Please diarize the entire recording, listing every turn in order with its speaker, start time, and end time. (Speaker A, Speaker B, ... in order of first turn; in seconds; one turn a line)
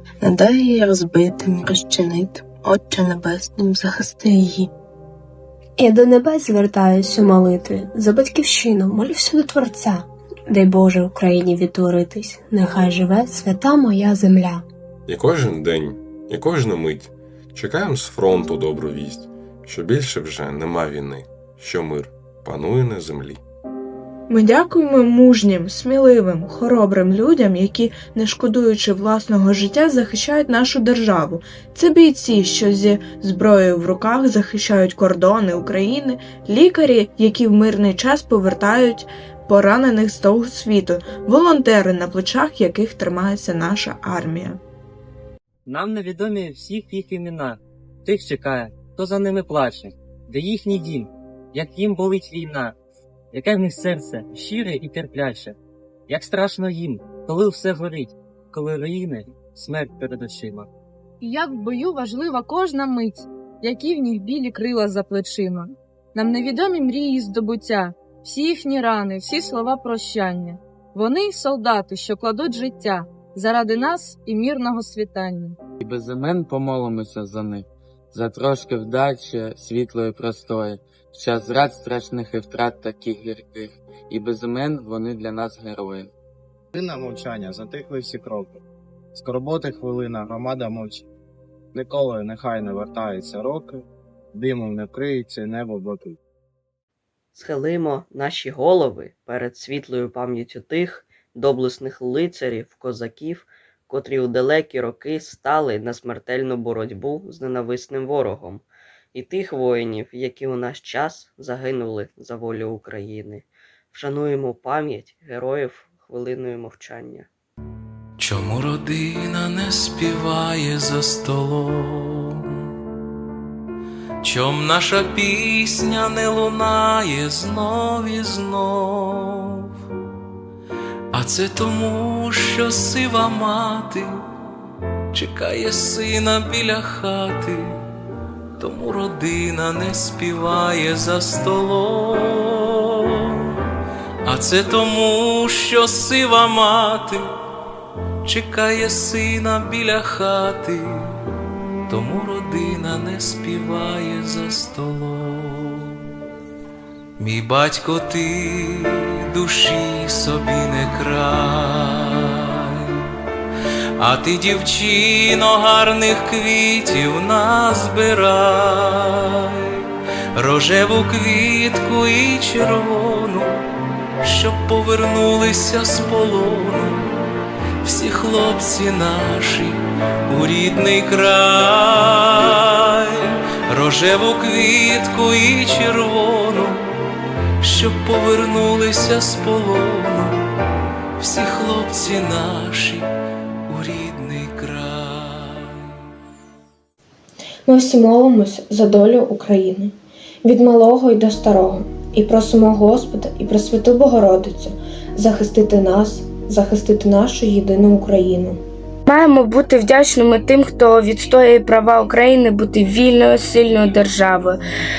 Speaker A: 0.2-4.7
Speaker B: 5.8-14.6
Speaker C: 15.1-23.4
Speaker D: 24.3-44.6
Speaker E: 45.6-52.7
Speaker E: 53.3-55.5
Speaker E: 56.1-60.7
Speaker F: 61.2-75.6
Speaker G: 75.8-86.1
Speaker H: 86.7-88.6
Speaker H: 89.1-91.1
Speaker H: 91.7-93.8
Speaker H: 94.3-96.2
Speaker I: 97.3-108.6
Speaker I: 109.1-117.3
Speaker J: 118.2-122.4
Speaker J: 124.2-129.7
Speaker J: 131.1-134.2
Speaker J: 135.1-137.8
Speaker J: 138.6-143.3
Speaker J: 144.2-147.2
Speaker J: 148.2-151.1
Speaker J: 151.9-156.0
Speaker J: 157.2-162.9
Speaker J: 164.0-169.8
Speaker J: 170.3-173.6
Speaker J: 174.2-177.2
Speaker J: 177.8-187.0
Speaker J: 187.6-190.3
Speaker J: 191.2-193.1
Speaker J: 193.7-195.9
Speaker K: 197.7-199.9
Speaker K: 200.5-208.6
Speaker L: 209.1-214.6